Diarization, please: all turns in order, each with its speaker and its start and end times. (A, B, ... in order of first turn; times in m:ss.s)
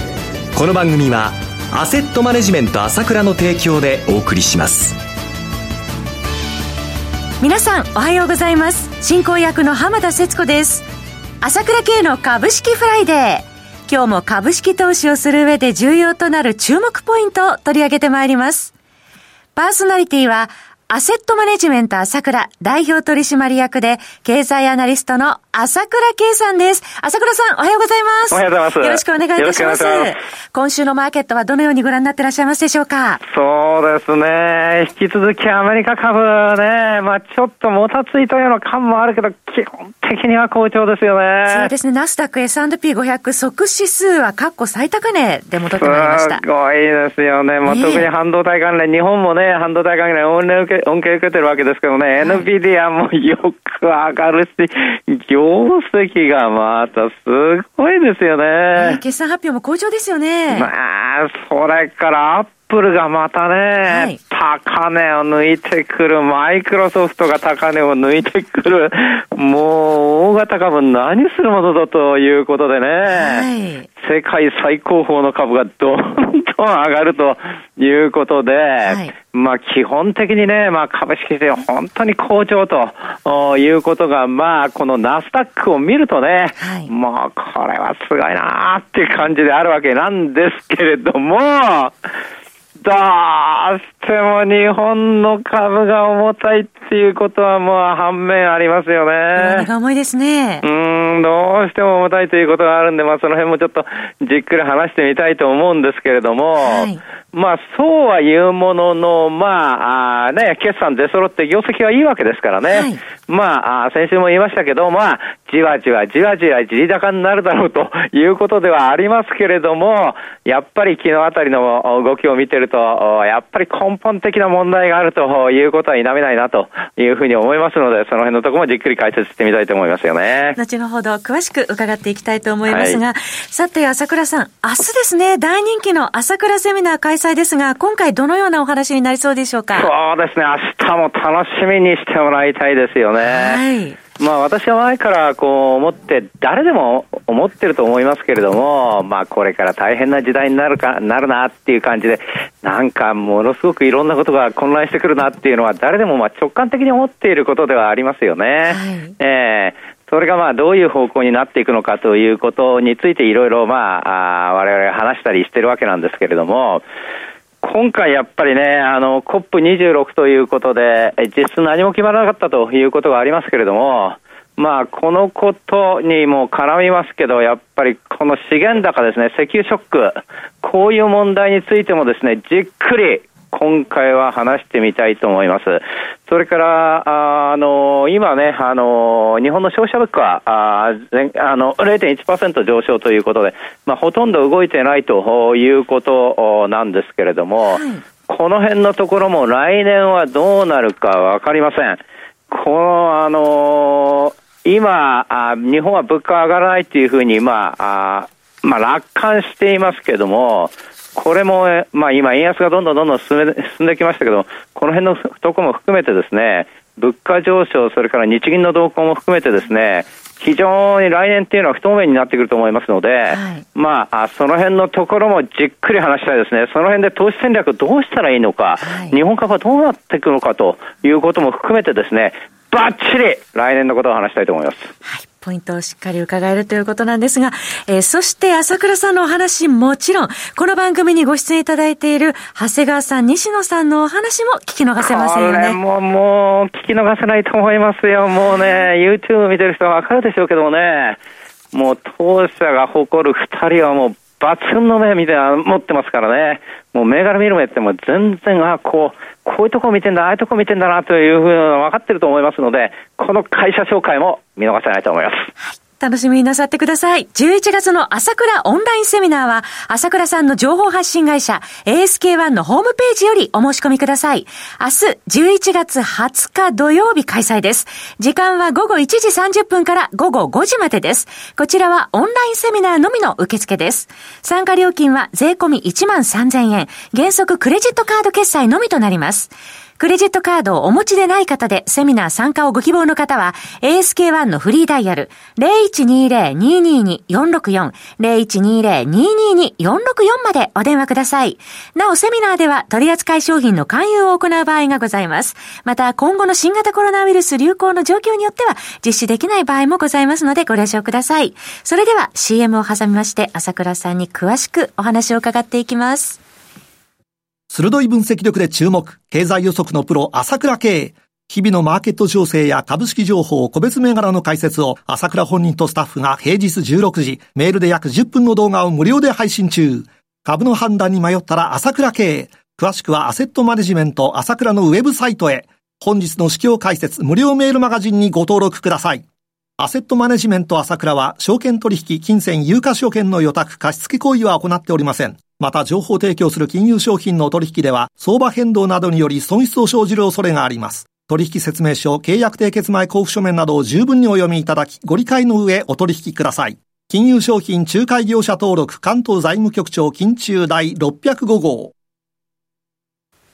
0:00.5-0:05.0 A
0:07.4-0:10.8 B
0:11.4-0:18.7 B
0:19.6-0:33.2 B
0:28.3-0:30.1 C
0:33.2-0:41.7 C
0:41.5-0:46.4 B
0:45.7-0:59.0 C
0:47.6-0:48.1 B
0:52.2-0:52.4 B
0:58.8-1:00.7 B
1:00.5-1:13.5 C
1:03.8-1:04.2 B
1:13.1-1:13.9 B
1:14.0-1:31.9 C
1:18.8-1:19.1 B
1:26.6-1:26.9 B
1:32.8-1:39.7 C
1:39.3-1:40.6 B
1:40.6-2:10.6 C
1:46.6-1:47.0 B
1:52.7-1:53.0 B
2:10.5-2:19.9 B
2:12.7-2:13.0 C
2:19.7-2:23.6 C
2:23.2-2:24.0 B
2:24.2-2:46.8 C
2:38.6-2:39.1 B
2:47.6-3:54.9 C
3:17.6-3:18.0 B
3:43.3-3:43.6 B
3:48.8-3:49.1 B
3:55.0-4:05.8 B
4:05.0-4:11.2 C
4:11.7-4:25.5 C
4:25.6-5:16.4 B
5:17.7-5:39.2 D
5:39.8-6:01.9 D